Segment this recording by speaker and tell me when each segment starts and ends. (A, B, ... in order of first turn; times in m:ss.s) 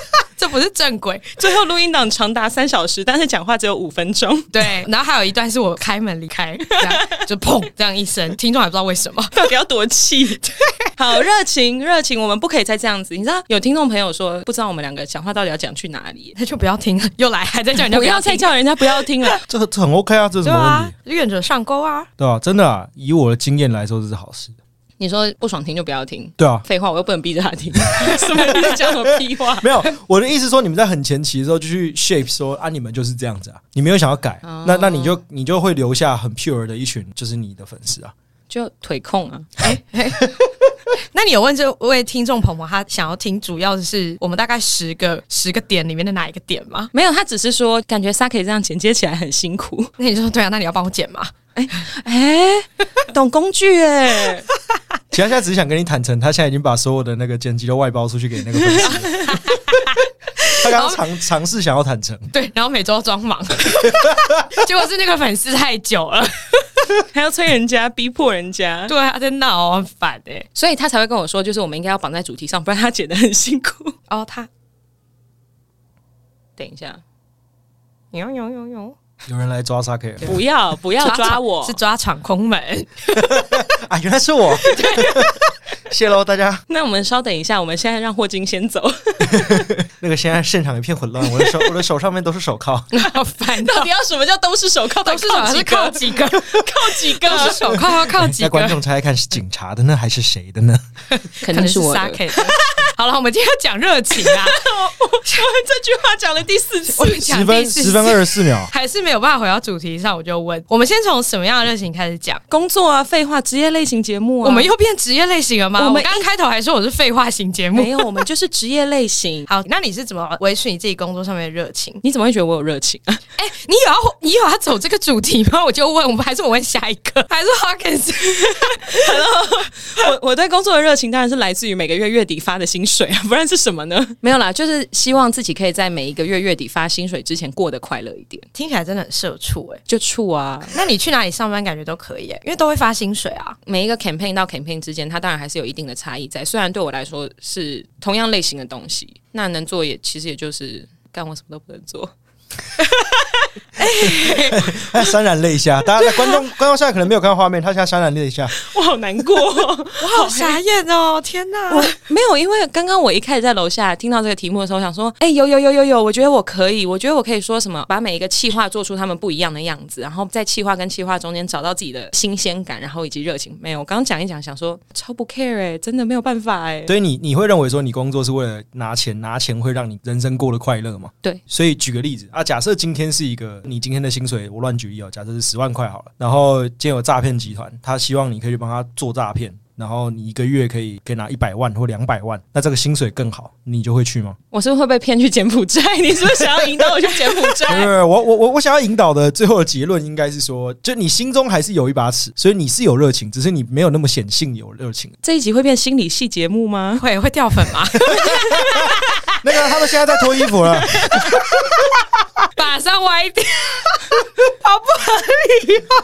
0:00.4-0:01.4 A
0:01.4-0:04.5 B
0:04.5-0:09.4 A
0:06.8-0:07.2 B
0:09.3-0:16.4 B
0:16.4-0:18.5 A
0:17.8-0:19.4 B
0:19.5-0:20.9 C
0:20.4-0:22.1 A
0:22.2-0:24.5 C
0:25.0-0:29.7 B
0:26.4-0:26.6 C
0:27.8-0:38.1 C
0:34.4-0:35.2 B
0:38.5-0:39.6 B
0:39.6-0:40.3 A
0:41.1-0:46.9 A
0:46.9-0:49.9 B
0:50.0-0:51.3 A
0:51.5-0:54.4 B
0:55.1-0:59.4 C
0:58.6-0:59.4 B
0:58.8-1:01.0 A
1:00.6-1:02.3 C
1:02.3-1:06.9 A
1:03.8-1:04.4 C
1:07.1-1:08.9 B
1:08.9-1:10.4 A
1:10.5-1:13.9 B
1:14.1-1:14.5 A
1:16.6-1:17.0 B
1:18.1-1:19.0 A
1:19.2-1:20.3 C
1:20.2-1:21.8 B
1:21.0-1:23.5 A
1:23.2-1:26.6 C
1:24.7-1:25.3 A
1:26.7-1:29.6 B
1:29.3-1:32.9 C
1:31.2-1:31.6 B
1:32.9-1:33.9 A
1:33.6-1:37.9 B
1:35.0-1:38.8 A
1:38.2-1:40.8 C
1:41.1-1:44.6 A
1:41.4-1:42.7 B
1:44.2-1:47.3 B
1:46.9-1:52.4 A
1:47.2-1:48.7 C
1:52.5-1:54.7 B
1:54.4-1:58.0 A
1:55.8-1:56.2 B
1:57.7-1:59.5 B
1:59.5-2:02.0 A
2:02.0-2:03.2 B
2:03.4-2:09.1 A
2:08.3-2:18.4 B
2:18.5-2:19.8 A
2:19.9-2:20.7 B
2:20.7-2:23.6 A
2:23.6-2:32.1 B
2:33.0-2:33.3 B
2:33.8-2:34.8 A
2:34.5-2:38.5 C
2:38.6-2:40.6 B
2:40.0-2:41.9 A
2:41.7-2:56.9 B
2:56.9-3:14.4 C
3:14.5-3:17.9 B
3:17.6-3:25.1 C
3:25.2-3:27.0 B
3:27.0-3:29.3 A
3:28.1-3:31.2 C
3:28.3-3:28.9 B
3:30.9-3:31.7 A
3:32.5-3:35.9 A